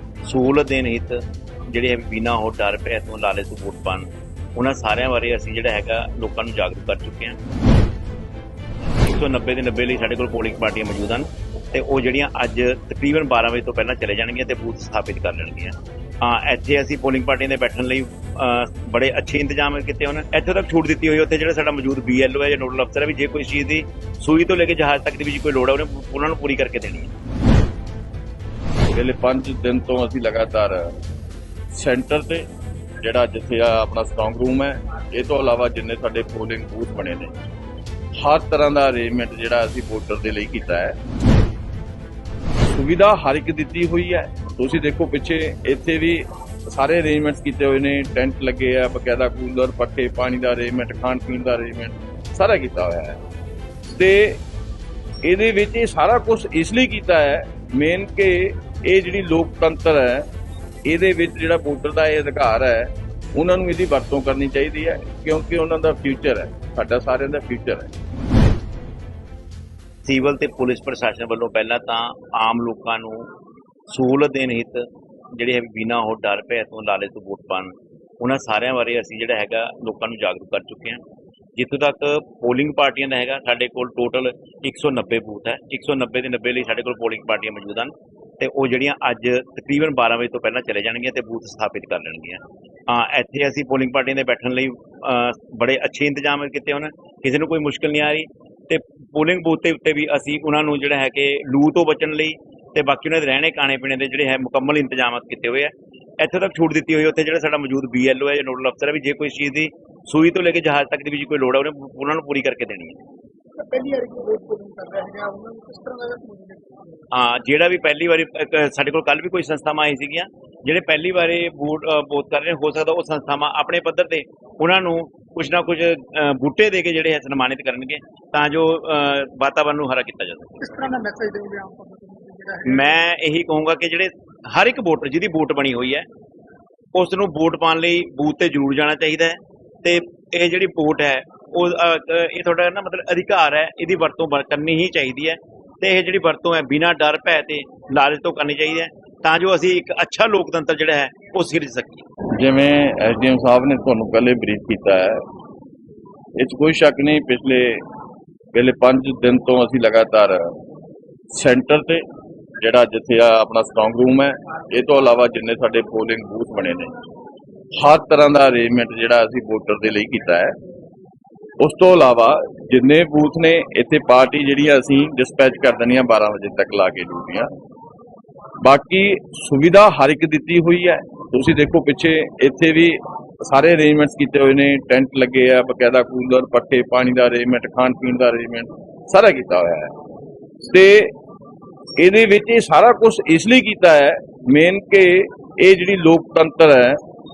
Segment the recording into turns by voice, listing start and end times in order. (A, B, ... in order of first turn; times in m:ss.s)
0:00.2-0:07.4 A
0:09.0-0:27.1 A
0:28.9-0:31.0 B
0:31.7-0:32.5 B
0:33.0-0:37.4 B
0:38.2-0:41.0 B
0:42.7-0:53.2 B
0:53.9-0:54.4 B
0:55.2-1:00.3 B
1:00.9-1:07.9 B
1:10.1-1:13.3 A
1:13.9-1:21.0 A
1:21.6-1:53.0 A
1:53.6-1:57.0 C
1:57.1-2:10.7 A
2:10.6-2:13.0 C
2:12.7-2:16.1 A
2:16.9-2:32.1 A
2:32.4-2:35.2 B
2:36.4-2:37.8 B
2:38.5-2:40.6 B
2:41.3-2:42.0 B
2:42.6-2:46.9 B
2:47.8-2:50.6 B
2:51.6-2:57.5 B
2:58.6-3:09.9 B
3:10.6-3:11.1 B
3:12.0-3:17.0 B